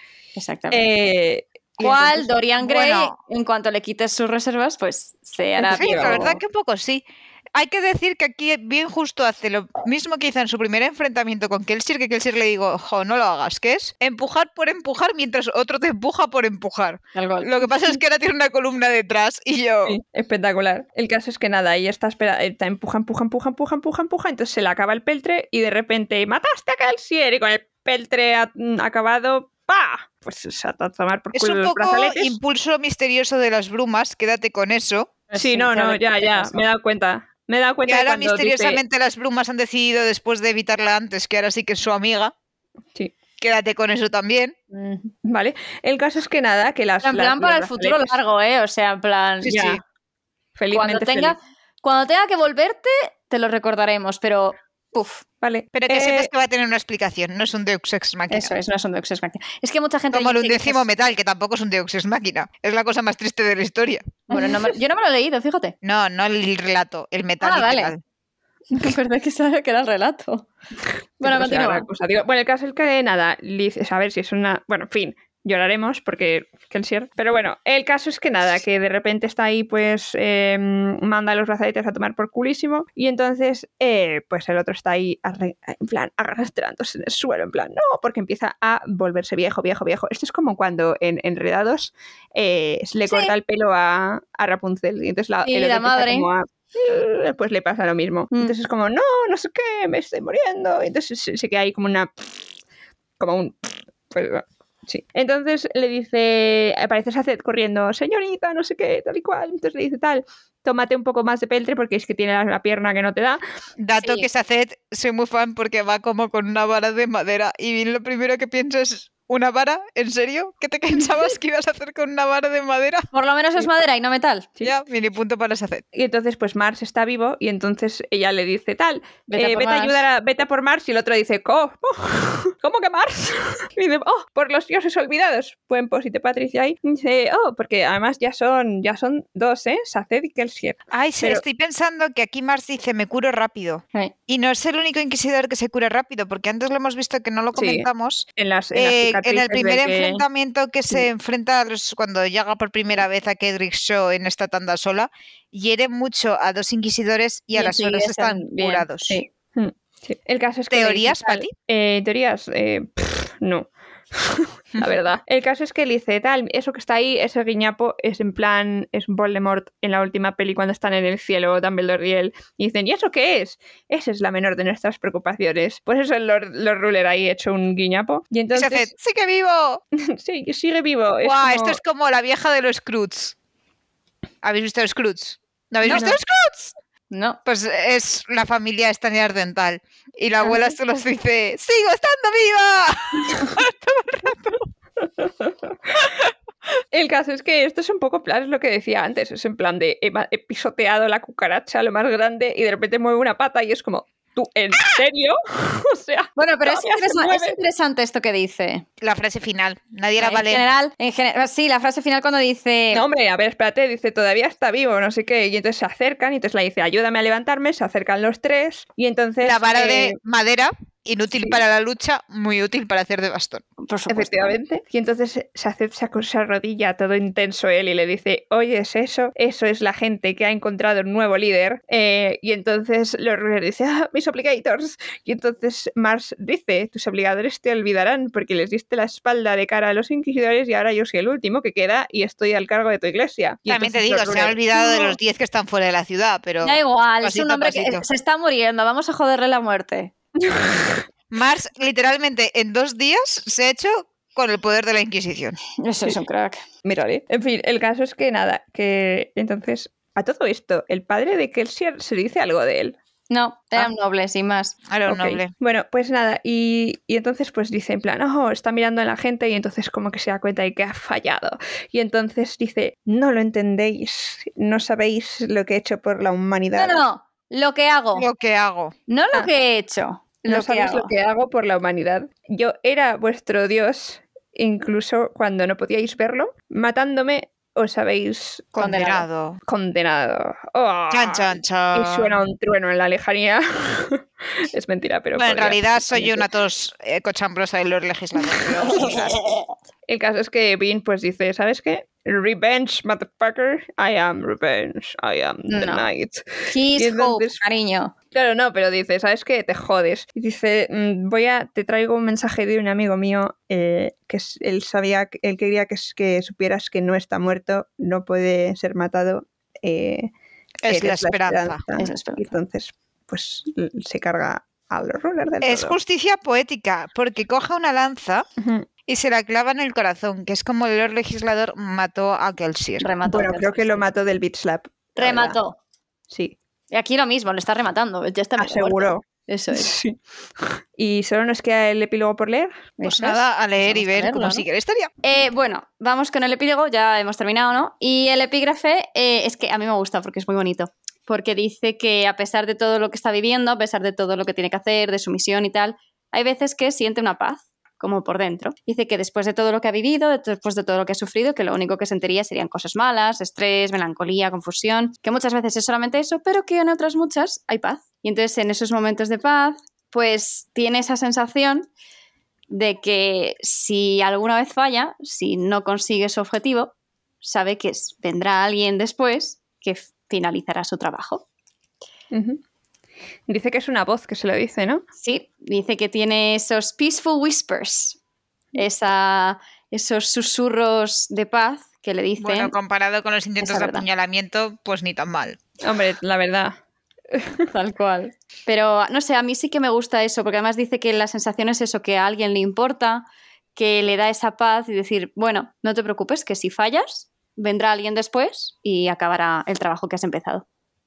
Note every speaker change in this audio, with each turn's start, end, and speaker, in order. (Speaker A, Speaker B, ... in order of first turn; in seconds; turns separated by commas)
Speaker A: 0.4-0.9, Speaker B: 0.7-2.3, Speaker A: 1.8-6.4, Speaker C: 2.6-3.1, Speaker B: 5.6-6.3, Speaker C: 5.7-20.0, Speaker A: 17.2-17.7, Speaker B: 19.9-32.4, Speaker C: 31.3-35.1, Speaker A: 35.3-36.6, Speaker B: 35.4-38.8, Speaker C: 37.9-42.3, Speaker C: 43.4-44.5, Speaker A: 44.7-45.1, Speaker B: 45.2-48.2, Speaker A: 47.0-49.7, Speaker C: 49.4-49.8, Speaker B: 49.5-49.8, Speaker B: 50.6-51.4, Speaker A: 50.7-55.2, Speaker B: 55.4-56.3, Speaker C: 55.7-58.5, Speaker A: 58.3-60.9, Speaker C: 60.1-64.3, Speaker A: 64.3-65.8, Speaker C: 65.8-68.0, Speaker A: 67.4-67.9, Speaker A: 68.7-70.5, Speaker B: 71.2-102.1, Speaker A: 71.2-71.9, Speaker A: 93.1-93.3, Speaker A: 95.5-96.3, Speaker B: 103.2-113.4, Speaker C: 113.8-123.1, Speaker A: 114.0-114.3, Speaker A: 123.1-124.5, Speaker C: 124.6-125.8, Speaker B: 125.9-141.4, Speaker A: 129.3-130.0, Speaker C: 140.9-159.2, Speaker B: 147.6-150.2, Speaker A: 157.6-159.2, Speaker B: 159.2-178.9, Speaker C: 160.7-161.5, Speaker C: 178.5-179.8, Speaker B: 180.0-181.8, Speaker C: 181.2-183.3, Speaker C: 184.4-186.8, Speaker A: 185.8-186.1, Speaker B: 185.9-186.2, Speaker A: 187.1-187.4, Speaker C: 187.4-194.7, Speaker B: 195.0-196.2, Speaker B: 196.9-207.6, Speaker A: 206.4-208.8, Speaker C: 209.0-210.6, Speaker A: 210.2-213.0, Speaker B: 212.9-220.2, Speaker C: 219.4-223.6, Speaker A: 223.8-224.6, Speaker B: 224.1-245.2, Speaker C: 243.7-248.0, Speaker A: 246.6-250.1, Speaker B: 250.4-251.0, Speaker C: 251.3-255.6, Speaker A: 255.8-256.6, Speaker B: 256.9-263.0, Speaker A: 263.3-264.8, Speaker C: 264.9-265.5, Speaker B: 265.1-277.0, Speaker A: 276.8-278.3, Speaker C: 278.2-278.9, Speaker A: 279.1-281.1, Speaker B: 280.5-288.8, Speaker C: 288.8-289.6, Speaker A: 288.8-289.2, Speaker B: 289.6-296.4, Speaker C: 291.1-292.4, Speaker C: 295.4-299.4, Speaker A: 298.9-299.6, Speaker B: 300.1-307.6, Speaker A: 305.7-306.1, Speaker A: 306.7-308.1, Speaker B: 308.3-320.3, Speaker C: 320.8-321.8, Speaker B: 320.9-326.0, Speaker A: 322.0-322.5, Speaker C: 325.6-328.5, Speaker B: 328.6-328.9, Speaker C: 329.1-333.1, Speaker A: 333.0-334.0, Speaker B: 333.3-335.6, Speaker A: 335.2-335.8, Speaker B: 336.3-336.6, Speaker A: 336.9-339.9, Speaker B: 338.6-342.9, Speaker A: 343.0-344.6, Speaker C: 343.1-345.1, Speaker A: 345.2-371.9, Speaker A: 372.7-381.4, Speaker B: 382.3-382.6, Speaker B: 383.5-385.0, Speaker A: 385.2-388.2, Speaker A: 388.8-392.7, Speaker C: 392.4-395.6, Speaker A: 393.6-394.1, Speaker B: 395.8-396.8, Speaker B: 397.3-397.7, Speaker A: 397.7-403.2, Speaker A: 403.8-410.6